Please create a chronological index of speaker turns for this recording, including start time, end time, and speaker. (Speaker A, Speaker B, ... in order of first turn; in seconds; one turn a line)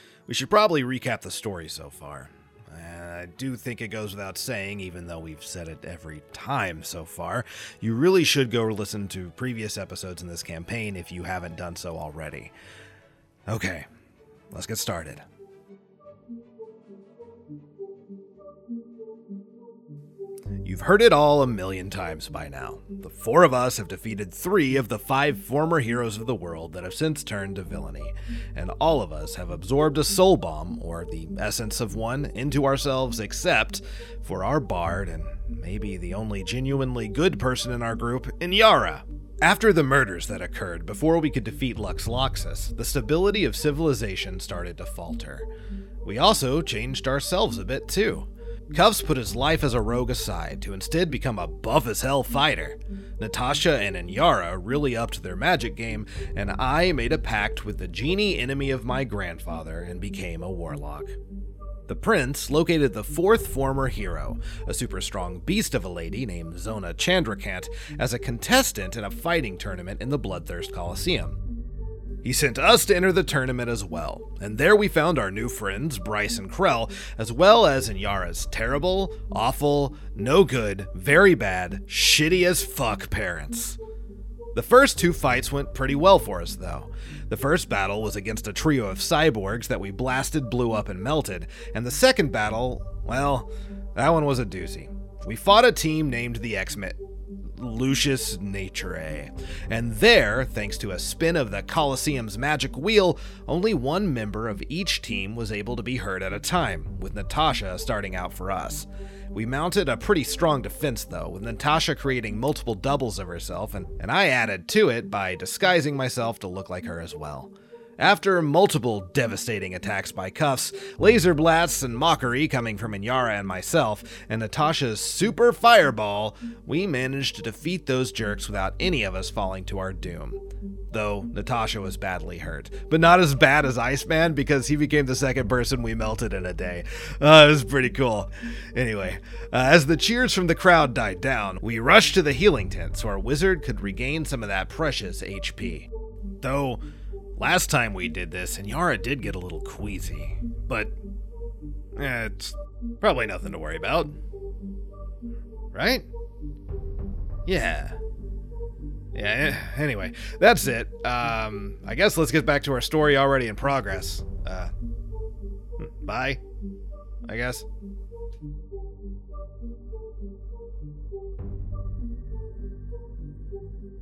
Speaker A: 0.3-12.5
Speaker A: 13.5-13.8
Speaker A: 14.5-15.2
Speaker A: 20.6-45.5
Speaker A: 46.0-61.2
Speaker A: 61.9-71.4
Speaker A: 72.2-83.8
Speaker A: 84.5-145.9
Speaker A: 146.4-146.8
Speaker A: 147.4-150.9
Speaker A: 151.9-154.2
Speaker A: 155.7-156.1
Speaker A: 157.4-158.0
Speaker A: 159.1-164.7
Speaker A: 165.8-166.4
Speaker A: 167.2-167.7